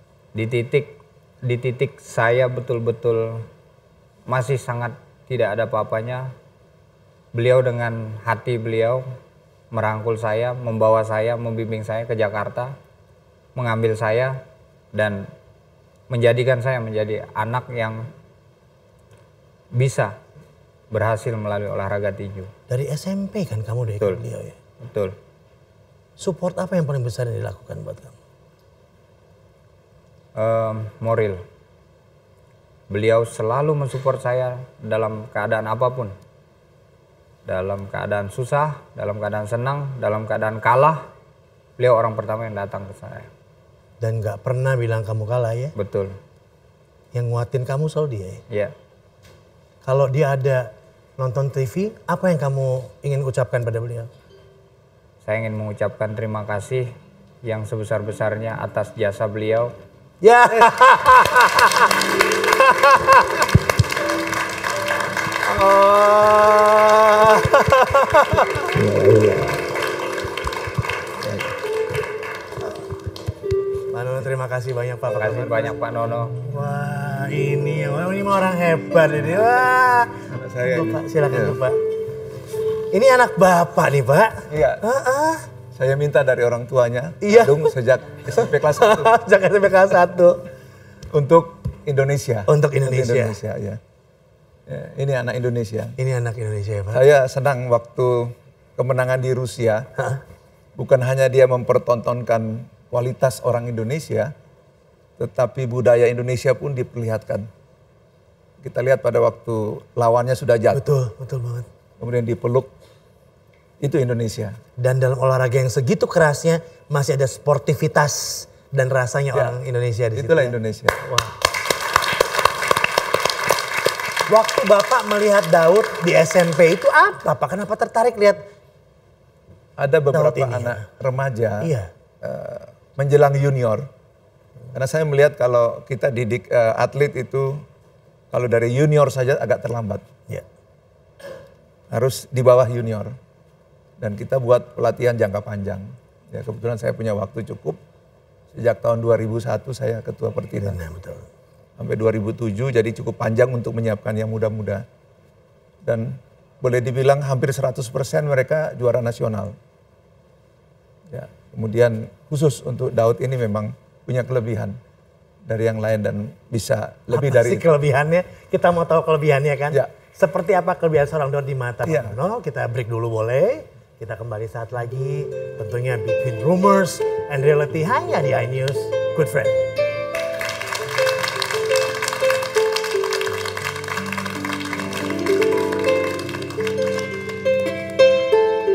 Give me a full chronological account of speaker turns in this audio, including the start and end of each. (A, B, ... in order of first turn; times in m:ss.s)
0:00.4-0:03.4 A
0:04.3-0:06.3 A
0:07.3-0:09.0 A
0:09.7-0:12.7 A
0:13.6-0:14.4 A
0:14.9-0:15.2 A
0:16.1-0:18.0 A
0:19.8-0:20.1 A
0:20.9-0:22.5 A
0:22.7-0:24.6 B
0:24.8-0:25.1 A
0:26.2-0:28.2 B
0:30.4-0:31.4 A
0:32.9-0:36.1 A
0:37.5-0:41.0 A
0:41.8-0:43.3 A
0:44.0-0:45.8 B
0:45.8-0:46.1 A
0:47.1-0:48.4 B
0:49.8-0:54.1 B
0:55.2-0:56.9 A
0:57.4-0:59.7 A
1:00.2-1:01.9 B
1:02.6-1:03.4 B
1:05.4-1:08.8 B
1:13.9-1:15.8 B
1:15.1-1:16.4 A
1:16.4-1:20.1 B
1:20.3-1:21.6 C
1:20.6-1:21.8 B
1:22.9-1:25.4 B
1:24.5-1:24.8 C
1:25.8-1:29.1 C
1:27.2-1:30.4 B
1:31.1-1:33.8 C
1:32.5-1:33.4 B
1:34.7-1:36.0 C
1:36.0-1:37.0 B
1:36.9-1:39.9 C
1:40.8-1:44.3 C
1:45.2-1:47.5 C
1:48.6-1:50.8 C
1:50.7-1:51.7 B
1:52.0-1:52.7 C
1:53.8-1:54.6 C
1:54.8-2:01.4 B
2:00.1-2:01.0 C
2:04.3-2:08.4 B
2:09.8-2:11.7 C
2:10.1-2:10.9 B
2:11.6-2:11.9 B
2:12.2-2:13.9 C
2:14.7-2:17.6 C
2:18.3-2:20.0 C
2:21.9-2:23.1 C
2:24.0-2:27.8 C
2:28.5-2:30.8 C
2:30.6-2:31.2 B
2:31.8-2:34.8 C
2:35.8-2:39.6 C
2:41.1-2:44.8 C
2:45.5-2:47.6 C
2:47.1-2:59.6 B
2:51.9-2:52.1 C